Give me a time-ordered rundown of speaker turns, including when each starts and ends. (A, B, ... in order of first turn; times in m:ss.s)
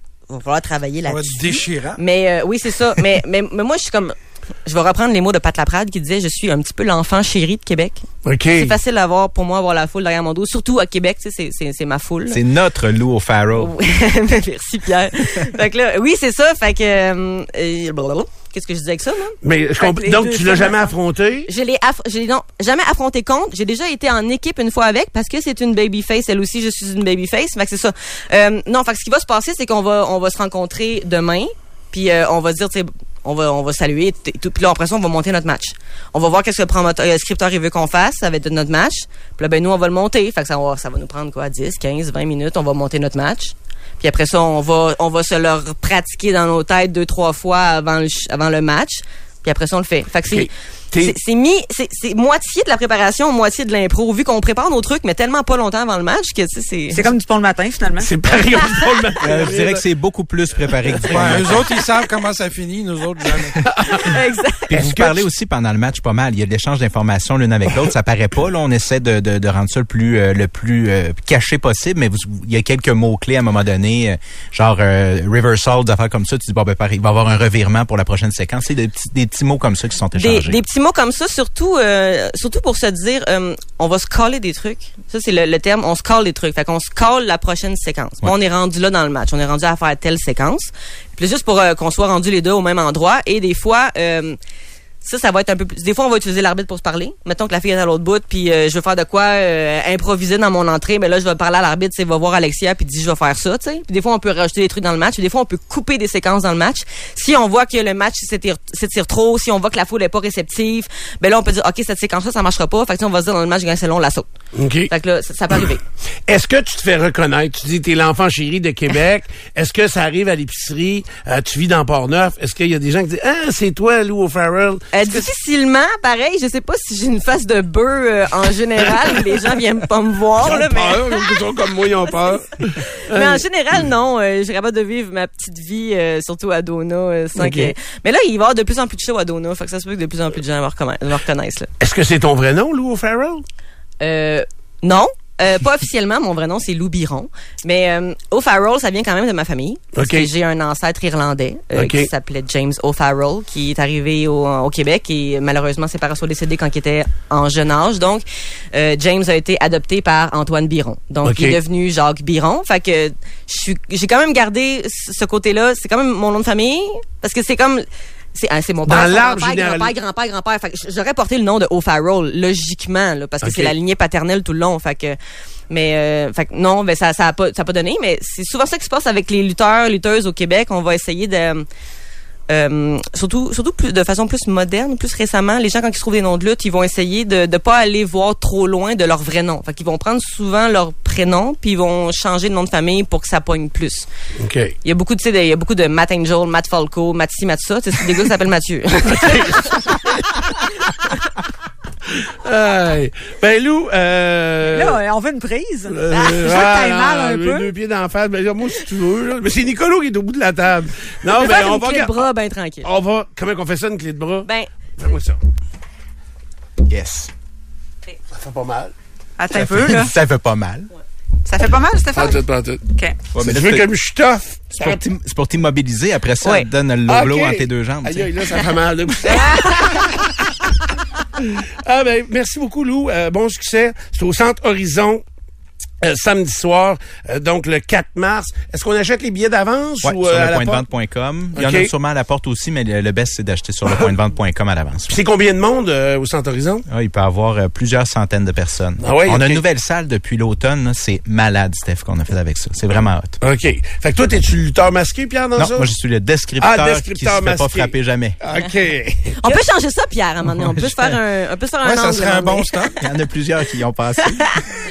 0:00.3-0:08.0 A
0:01.0-0:02.0 B
0:08.2-0:08.7 C
0:08.6-0:12.4 A
0:12.3-0:13.7 D
0:13.6-0:19.3 A
0:19.4-0:21.5 C
0:19.8-0:20.9 E
0:21.5-0:57.1 A
0:50.3-0:51.2 C
0:56.9-0:58.1 E
0:58.0-0:59.8 C
0:59.2-1:01.7 D
1:00.9-1:01.5 C
1:01.1-1:03.6 B
1:03.6-1:04.1 C
1:04.0-1:04.7 A
1:04.7-1:20.6 D
1:04.7-1:05.2 C
1:20.1-1:34.4 A
1:35.0-1:54.3 A
1:54.5-1:54.9 C
1:54.9-1:55.8 A
1:56.3-2:05.3 C
2:04.9-2:11.4 A
2:10.4-2:13.4 C
2:13.1-2:21.7 A
2:17.4-2:17.7 C
2:21.8-2:23.4 C
2:24.0-2:55.2 A
2:29.9-2:30.3 C
2:31.7-2:32.1 C
2:41.2-2:41.6 C
2:48.8-2:49.9 C
2:53.4-2:53.7 C
2:55.7-3:01.6 A
3:02.5-3:14.1 A
3:14.4-3:14.7 C
3:14.8-3:19.7 A
3:19.0-3:20.5 C
3:22.1-3:25.0 C
3:24.6-3:27.7 E
3:25.9-3:32.2 C
3:31.3-3:32.9 A
3:32.8-3:35.4 C
3:34.4-3:34.7 A
3:36.9-3:37.3 D
3:38.3-3:38.9 C
3:39.4-3:40.1 E
3:39.5-3:40.9 D
3:41.4-3:42.4 E
3:42.1-3:42.8 C
3:43.3-3:43.9 D
3:43.4-3:45.0 C
3:44.8-3:48.3 D
3:46.4-3:46.7 A
3:47.1-3:50.4 C
3:51.4-3:55.2 C
3:56.0-4:00.8 C
4:00.0-4:05.1 D
4:01.5-4:01.9 C
4:05.1-4:06.8 C
4:06.9-4:13.4 D
4:09.0-4:09.6 C
4:13.4-4:15.9 C
4:15.6-4:18.4 D
4:16.6-4:19.3 C
4:19.4-4:22.8 A
4:20.7-4:21.1 D
4:21.8-4:22.9 B
4:23.0-4:24.6 D